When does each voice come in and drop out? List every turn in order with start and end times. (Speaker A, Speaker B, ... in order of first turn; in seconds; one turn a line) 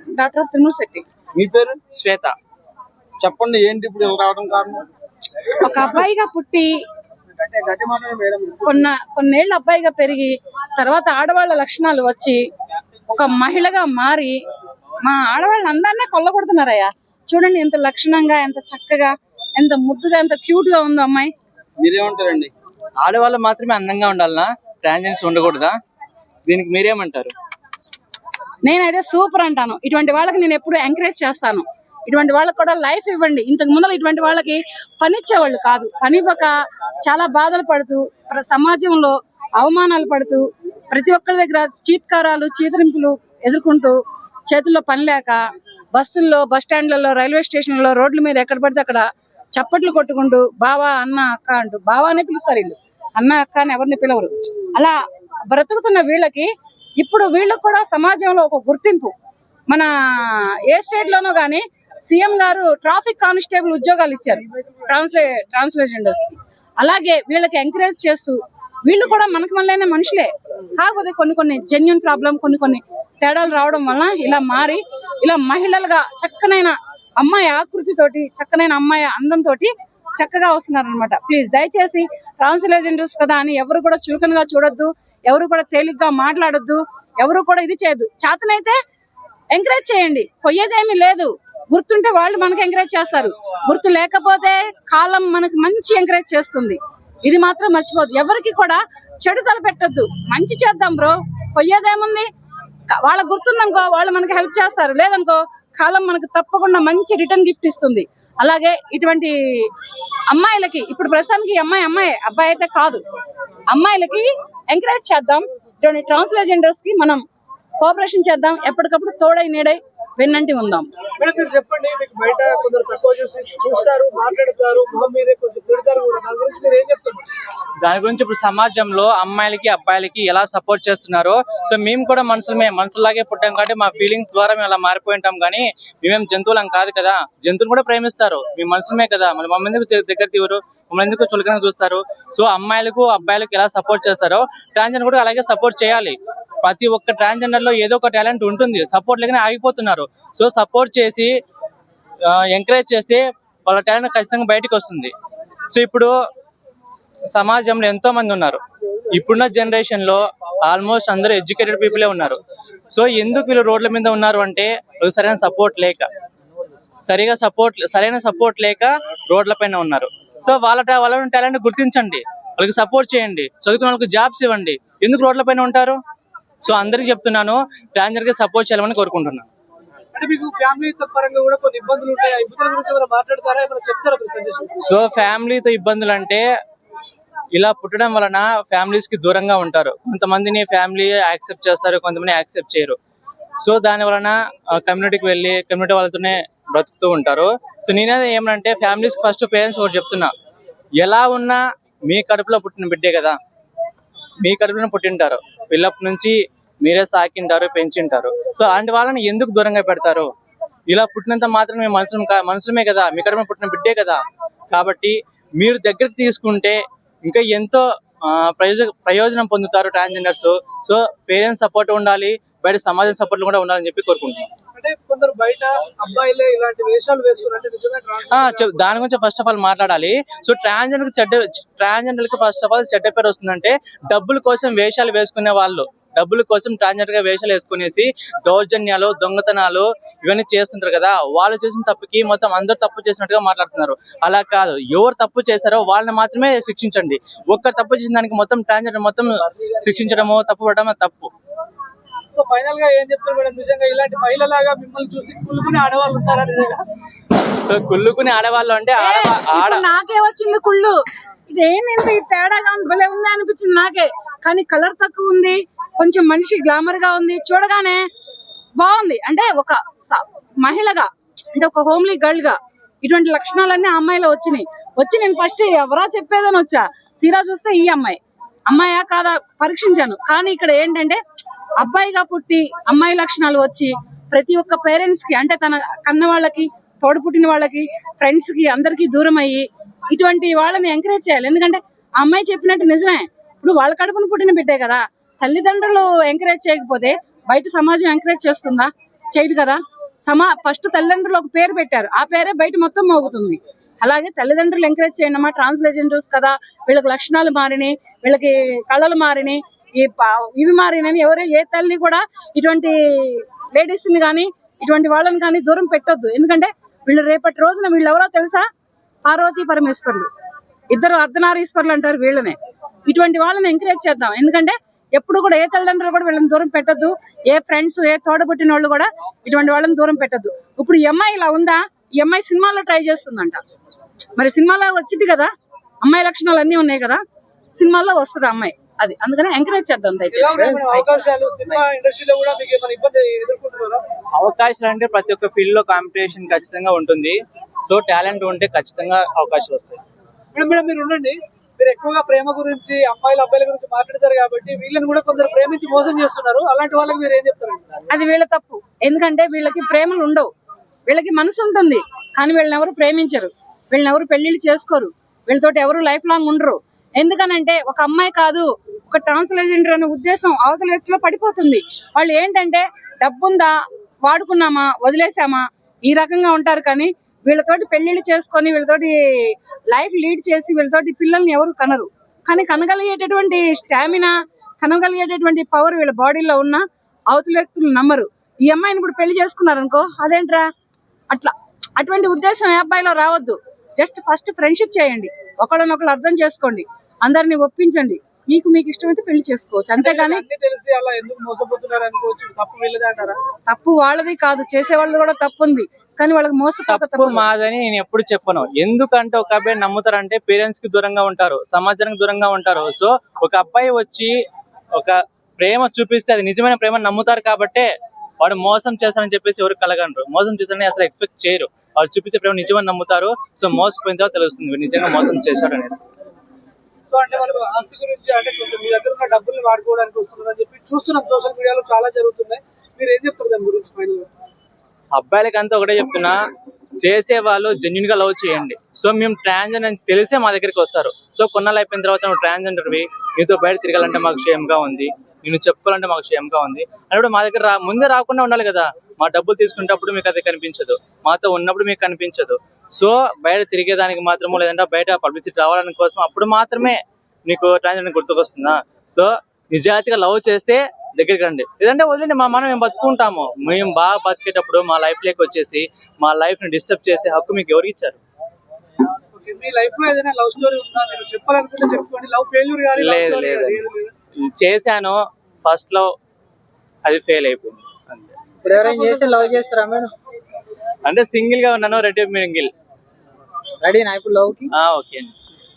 Speaker A: 0.1-1.1
Speaker B: 1.4-1.8
Speaker C: 1.9-2.4
Speaker B: 3.2-4.9
Speaker A: 5.6-6.8
Speaker B: 7.4-8.6
Speaker A: 8.6-12.4
Speaker A: 13.1-14.4
Speaker A: 15.0-21.3
Speaker B: 21.8-22.5
Speaker C: 23.0-25.8
Speaker C: 26.5-27.3
Speaker A: 28.6-45.4
Speaker A: 45.9-55.0
Speaker A: 55.5-59.1
Speaker A: 59.7-88.8
Speaker A: 89.5-102.3
Speaker A: 102.9-109.3
Speaker A: 110.3-113.0
Speaker A: 113.7-117.2
Speaker A: 117.8-120.9
Speaker D: 121.2-127.2
Speaker C: 127.8-151.3
Speaker C: 152.3-155.1
Speaker C: 155.7-156.1
Speaker C: 157.3-158.6
Speaker C: 159.1-162.4
Speaker C: 162.9-166.1
Speaker C: 167.1-176.0
Speaker C: 176.6-179.5
Speaker D: 180.2-184.8
Speaker C: 184.8-186.4
Speaker C: 187.6-193.0
Speaker C: 193.6-200.3
Speaker C: 201.0-203.4
Speaker C: 204.4-210.3
Speaker C: 210.9-214.2
Speaker C: 214.7-224.5
Speaker D: 224.8-228.9
Speaker C: 228.3-251.3
Speaker D: 252.3-256.8
Speaker C: 257.6-259.9
Speaker A: 259.0-261.0
Speaker A: 261.5-268.1
Speaker A: 268.8-281.2
Speaker A: 281.8-318.7
Speaker A: 319.2-320.3
Speaker A: 320.9-322.6
Speaker A: 323.1-333.6
Speaker A: 334.4-335.5
Speaker A: 336.0-337.2
Speaker A: 337.7-341.1
Speaker D: 340.3-344.0
Speaker C: 344.3-350.0
Speaker D: 350.5-358.0
Speaker A: 358.1-360.5
Speaker A: 361.1-390.7
Speaker A: 391.3-400.4
Speaker D: 400.0-403.4
Speaker A: 403.7-407.4
Speaker C: 406.9-414.3
Speaker C: 415.0-417.9
Speaker C: 418.4-426.0
Speaker D: 427.1-434.3
Speaker C: 435.1-436.4
Speaker C: 437.0-468.2
Speaker D: 469.3-474.1
Speaker C: 472.9-473.9
Speaker C: 474.4-476.1
Speaker C: 477.1-478.3
Speaker E: 478.6-480.1
Speaker D: 478.8-479.6
Speaker C: 481.1-482.7
Speaker E: 483.8-484.7
Speaker C: 484.8-485.3